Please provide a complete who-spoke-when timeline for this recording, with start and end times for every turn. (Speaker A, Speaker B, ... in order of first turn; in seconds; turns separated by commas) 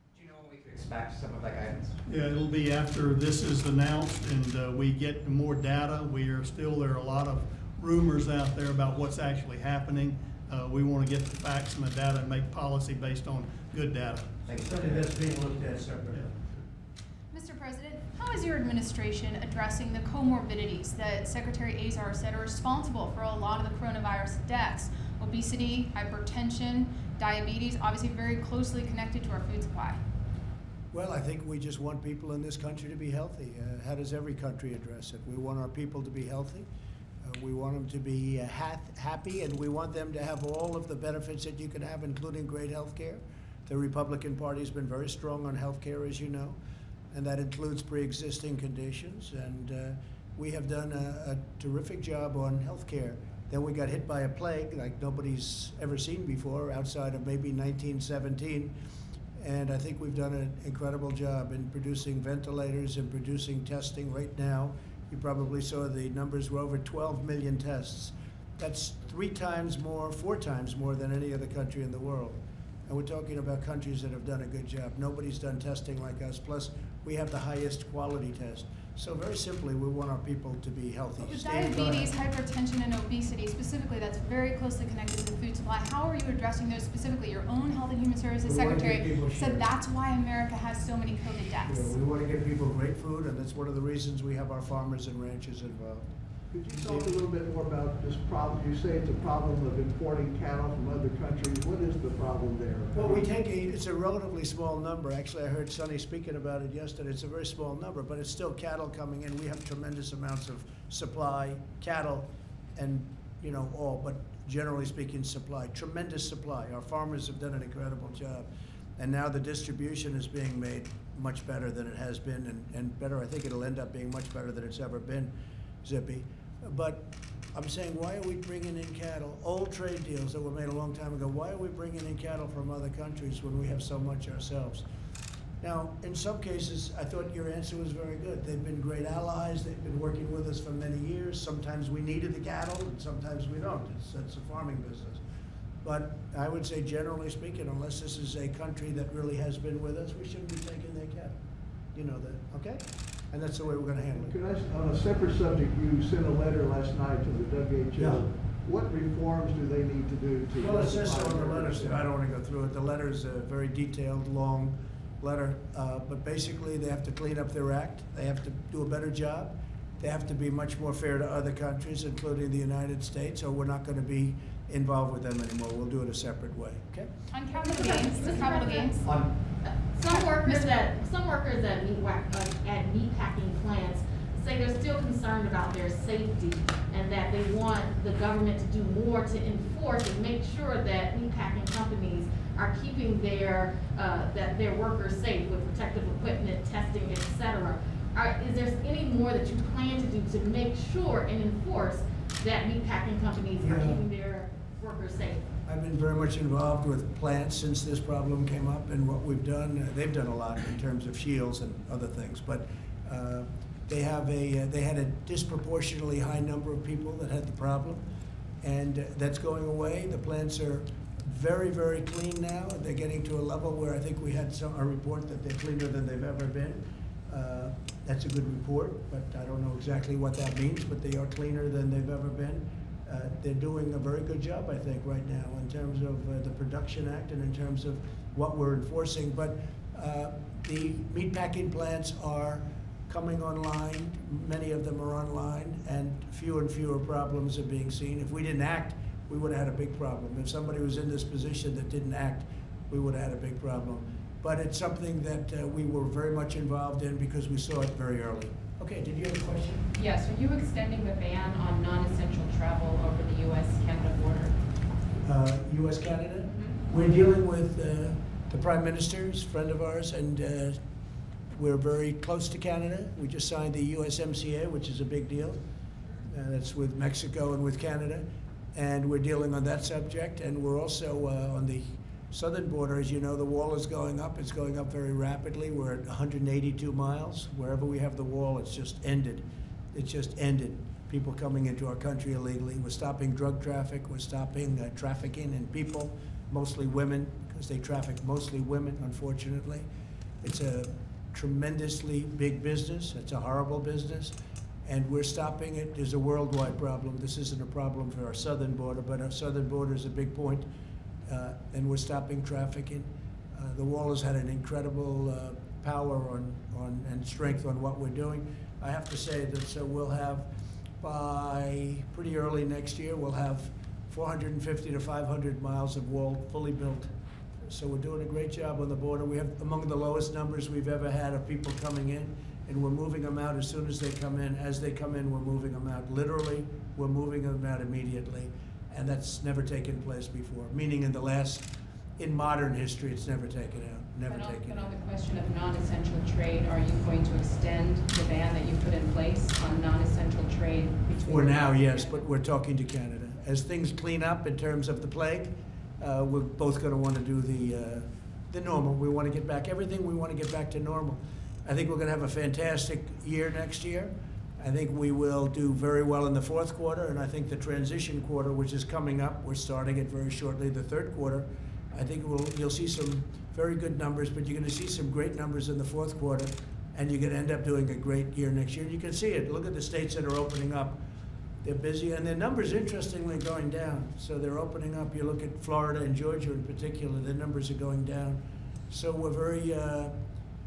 Speaker A: 0.1-2.0, Speaker B: 2.1-14.4, Speaker A: 14.4-15.6, Speaker C: 14.5-16.5, Speaker D: 17.3-30.0, Speaker C: 30.9-36.7, Speaker C: 37.2-46.6, Speaker C: 47.1-58.8, Speaker C: 59.4-82.1, Speaker D: 81.2-92.0, Speaker C: 88.4-89.7, Speaker C: 91.6-96.1, Speaker E: 96.5-103.3, Speaker C: 96.7-97.2, Speaker C: 102.9-134.8, Speaker C: 135.6-145.2, Speaker C: 145.8-151.4, Speaker C: 151.9-154.4, Speaker E: 154.1-162.0, Speaker C: 157.9-158.3, Speaker C: 160.6-177.1, Speaker D: 177.3-179.1, Speaker F: 177.5-179.1, Speaker A: 179.0-179.3, Speaker F: 179.6-205.5, Speaker D: 180.1-180.7, Speaker C: 203.6-204.1, Speaker C: 205.6-218.1, Speaker C: 218.6-259.9, Speaker G: 259.9-264.6, Speaker C: 265.2-270.8, Speaker G: 266.5-266.8, Speaker C: 271.5-275.6, Speaker C: 276.2-299.9, Speaker C: 300.4-310.7, Speaker C: 311.2-327.1, Speaker C: 327.6-345.0, Speaker G: 344.3-352.2, Speaker C: 351.2-381.0, Speaker C: 381.6-390.2